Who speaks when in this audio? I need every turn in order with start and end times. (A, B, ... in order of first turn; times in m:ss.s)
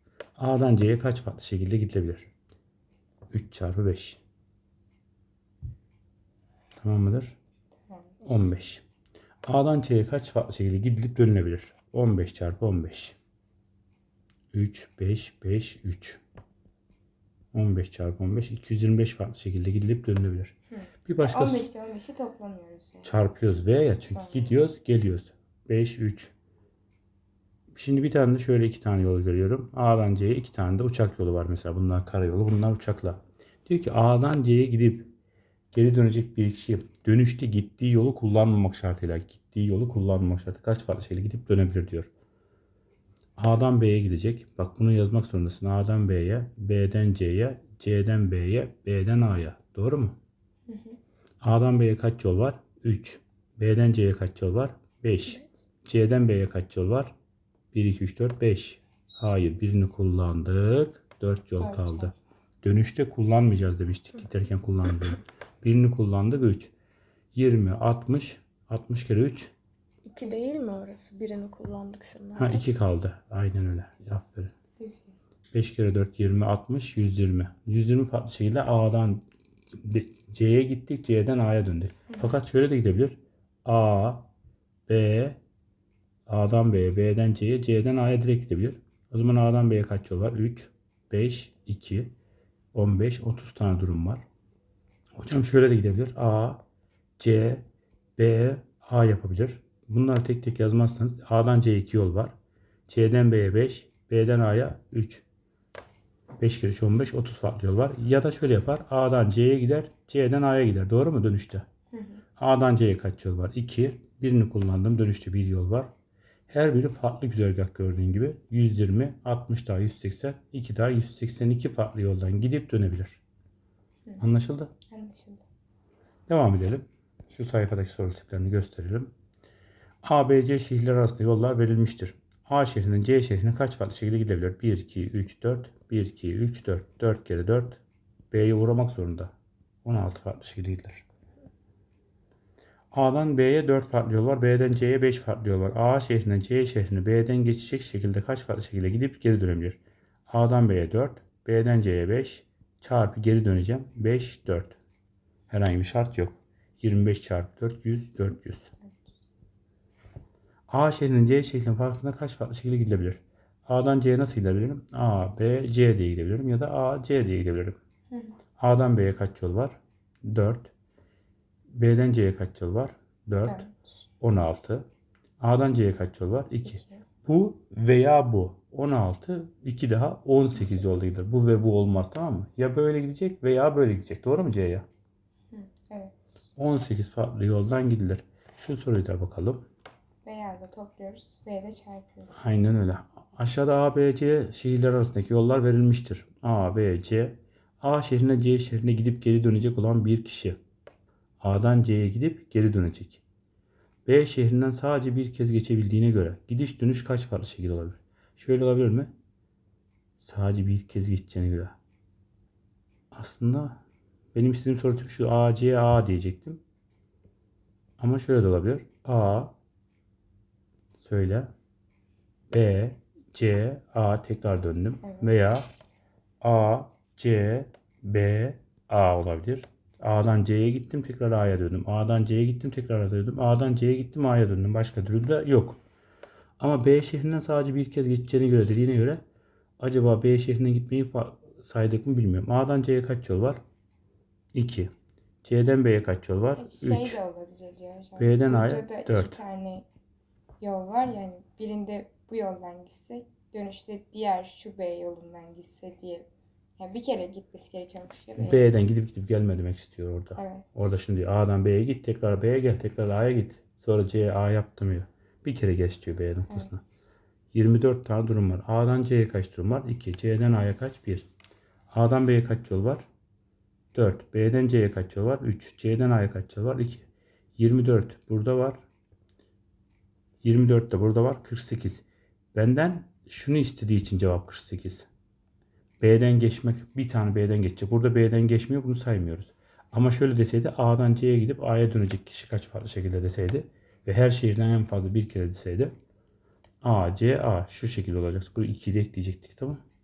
0:00.4-0:02.3 A
0:03.3-0:04.2 A
0:06.8-0:07.4 A
0:07.9-0:08.2 B
0:08.2-0:08.8 A
0:09.5-0:13.2 A
0:14.5-0:16.2 A
0:17.5-0:21.7 A
0:20.7-0:23.2 B
0:23.0-0:26.3 A
0:24.1-0:24.6 B
0:27.7-0:35.1 A
0:35.7-0:42.1 A
0:43.4-0:50.2 A
0:50.7-0:51.0 B
0:51.4-0:57.1 A
0:57.7-1:06.7 A
1:01.6-1:02.1 B
1:07.3-1:09.5 A
1:10.1-1:12.6 C
1:12.4-1:14.5 A
1:14.8-1:15.1 B
1:15.5-1:24.3 A
1:24.9-1:25.4 A
1:26.3-1:32.1 A
1:32.7-1:34.2 A
1:35.2-1:36.6 A
1:37.2-1:37.6 A
1:38.2-1:42.3 A
1:42.9-1:45.2 A
1:46.4-1:51.7 A
1:51.9-1:52.2 B
1:52.4-1:55.9 A
1:56.5-2:03.2 A
2:04.2-2:04.7 A
2:04.9-2:05.4 B
2:06.3-2:09.1 A
2:10.0-2:19.3 A
2:19.8-2:21.0 A
2:22.9-2:34.8 A
2:35.5-2:38.7 A
2:40.7-2:47.8 A
2:48.1-2:48.4 B
2:48.6-2:50.7 A
2:51.7-2:53.6 A
2:53.4-2:53.8 B
2:54.2-2:54.9 A
2:55.4-3:04.9 A
2:56.7-2:57.0 B
3:05.5-3:06.2 B
3:06.6-3:09.6 A
3:10.2-3:12.3 B
3:12.3-3:20.6 A
3:21.4-3:23.2 A
3:24.0-3:29.1 A
3:30.2-3:31.8 A
3:33.1-3:33.8 A
3:34.3-3:36.6 A
3:38.0-3:39.5 A
3:41.0-3:41.5 A
3:42.5-3:45.7 A
3:45.0-3:45.3 B
3:46.4-3:55.8 A
3:56.6-3:59.2 A
3:59.8-4:03.6 A
4:04.5-4:04.9 A
4:05.4-4:07.2 A
4:06.6-4:09.9 B
4:08.2-4:09.4 A
4:10.6-4:18.7 B
4:18.4-4:26.8 A
4:20.4-4:20.7 B
4:27.5-4:31.3 A
4:31.9-4:33.1 A
4:33.9-4:38.8 A
4:40.4-4:45.1 A
4:46.0-4:55.9 A
4:56.8-4:59.8 A